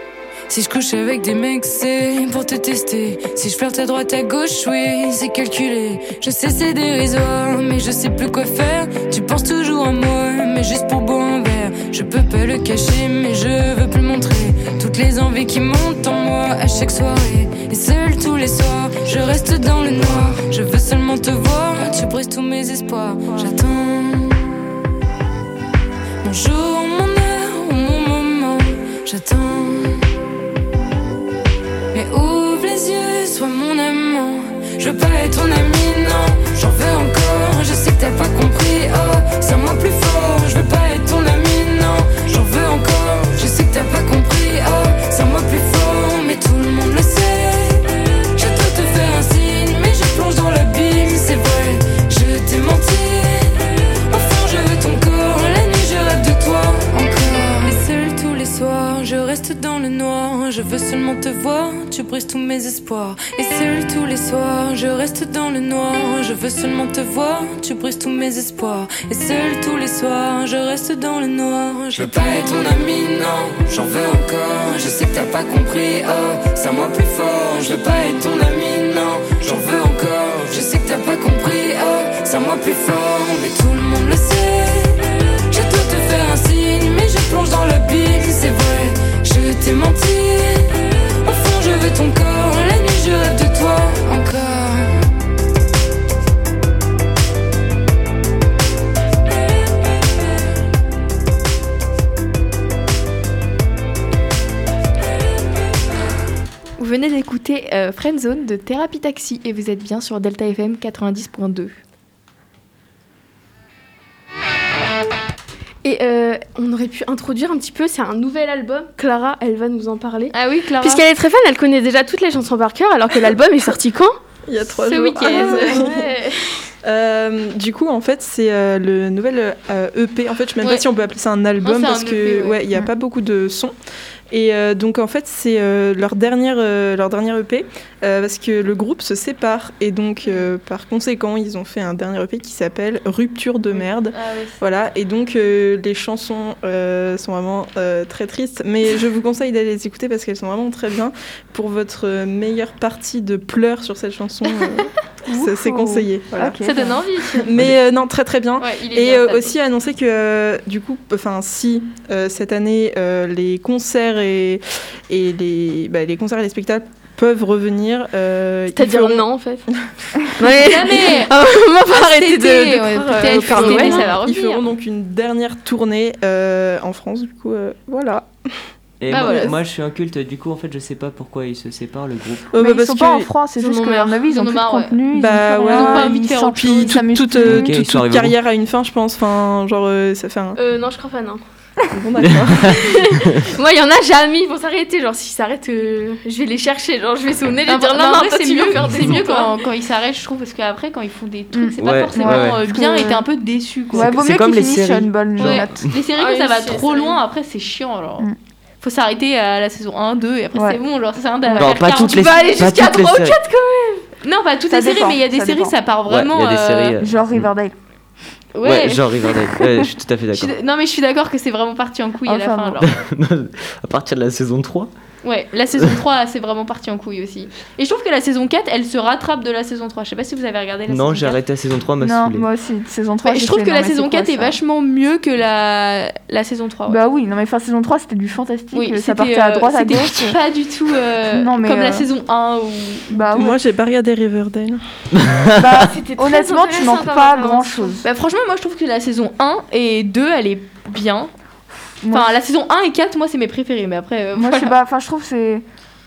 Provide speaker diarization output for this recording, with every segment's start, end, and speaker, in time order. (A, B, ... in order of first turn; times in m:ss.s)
0:00.5-0:24.7 A
0:26.2-0:30.2 A
0:31.9-1:35.1 A
1:46.8-1:51.8 B
1:55.8-2:04.2 C
2:00.3-2:01.0 B
2:04.5-2:06.1 D
2:04.8-2:06.4 B
2:04.9-2:05.9 C
2:06.8-2:13.7 D
2:10.6-2:10.9 B
2:11.6-2:12.7 B
2:14.3-2:36.6 D
2:20.2-2:20.5 B
2:23.7-2:24.6 B
2:34.5-2:34.8 B
2:35.3-2:37.0 E
2:36.6-2:37.6 B
2:37.3-2:49.2 D
2:38.6-2:39.5 B
2:48.7-2:49.7 C
2:50.2-2:54.1 C
2:50.5-2:51.3 B
2:51.8-2:54.7 B
2:53.0-2:58.7 D
2:59.0-3:02.5 F
2:59.1-2:59.6 B
3:02.5-3:03.3 D
3:02.6-3:07.8 E
3:03.6-3:04.2 C
3:03.9-3:07.1 B
3:05.1-3:10.6 D
3:07.4-3:08.4 F
3:10.6-3:11.4 C
3:11.9-3:12.8 D
3:12.2-3:13.5 F
3:12.6-3:19.5 C
3:17.7-3:24.1 B
3:21.5-3:23.2 E
3:21.8-3:22.6 F
3:23.9-3:25.8 E
3:23.9-3:26.0 F
3:25.4-3:28.3 B
3:26.1-3:27.2 C
3:28.8-3:33.3 B
3:30.5-3:30.8 E
3:31.5-3:31.7 E
3:31.5-3:33.4 F
3:32.6-3:34.0 C
3:34.2-3:37.0 B
3:34.7-3:35.8 E
3:36.0-3:37.5 F
3:37.0-3:37.7 E
3:38.5-3:39.5 B
3:38.6-3:40.5 F
3:40.3-3:42.9 B
3:42.2-3:42.8 E
3:42.8-3:44.9 F
3:45.2-3:51.4 B
3:50.9-3:52.4 F
3:52.0-3:54.6 E
3:53.2-3:57.0 B
3:56.8-4:00.4 E
3:58.7-4:03.2 B
4:01.2-4:02.1 E
4:03.1-4:03.6 E
4:03.3-4:04.8 D
4:05.1-4:05.9 F
4:05.5-4:08.0 E
4:05.9-4:08.0 C
4:08.0-4:11.3 B
4:12.0-4:12.3 E
4:12.1-4:14.7 B
4:14.3-4:15.6 E